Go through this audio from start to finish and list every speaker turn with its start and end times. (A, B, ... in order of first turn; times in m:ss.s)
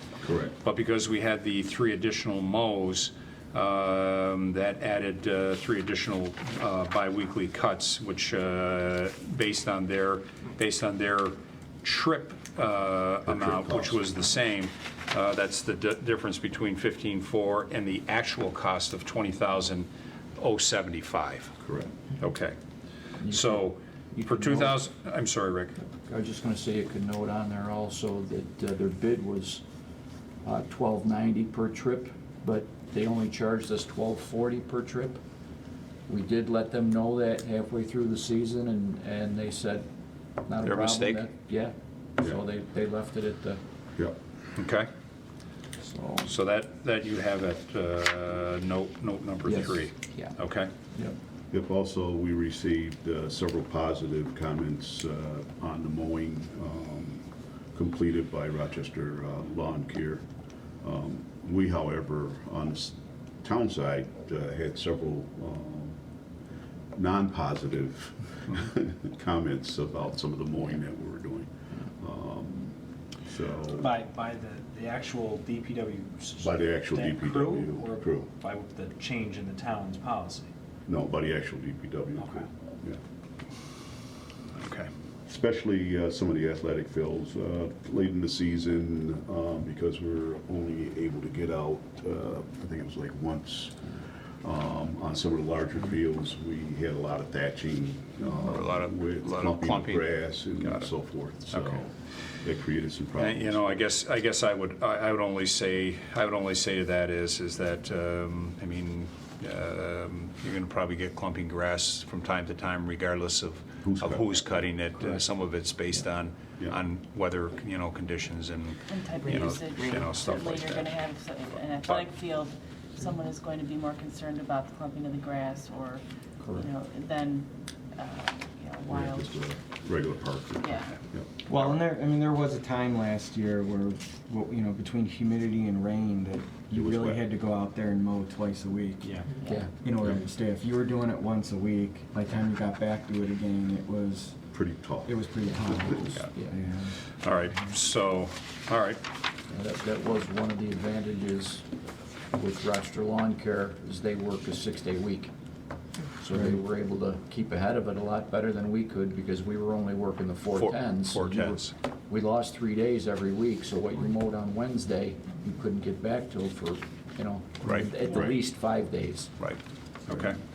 0:00.2-0:00.5 A
0:00.6-0:21.5 B
0:13.2-0:14.0 A
0:21.6-0:21.9 A
0:22.2-0:22.6 B
0:23.2-0:24.8 C
0:23.3-0:25.8 B
0:25.8-0:29.6 C
0:30.4-0:35.2 C
0:36.1-0:39.9 C
0:40.4-0:43.6 C
0:40.6-0:41.2 B
0:44.6-0:44.9 B
0:45.8-0:46.3 C
0:46.2-0:50.7 B
0:49.4-0:50.4 C
0:51.5-1:00.2 A
1:00.8-1:06.0 A
1:07.0-1:13.9 A
1:13.8-1:20.5 D
1:16.4-1:18.3 A
1:20.9-1:23.0 A
1:24.5-1:24.9 B
1:25.2-1:33.8 A
1:34.4-1:43.9 A
1:38.4-1:40.9 B
1:41.5-1:41.8 B
1:43.2-2:01.0 B
1:53.8-1:54.5 A
1:58.9-2:09.4 E
2:08.9-2:11.3 A
2:10.6-2:11.0 E
2:11.5-2:19.2 F
2:16.7-2:17.2 A
2:19.3-2:19.7 E
2:19.7-2:26.9 F
2:24.5-2:25.1 A
2:25.7-2:26.0 A
2:27.0-2:29.0 B
2:29.5-2:31.6 C
2:32.3-2:35.3 C
2:36.2-2:49.3 C
2:40.5-2:41.7 B
2:47.6-2:48.4 B
2:49.4-2:50.4 B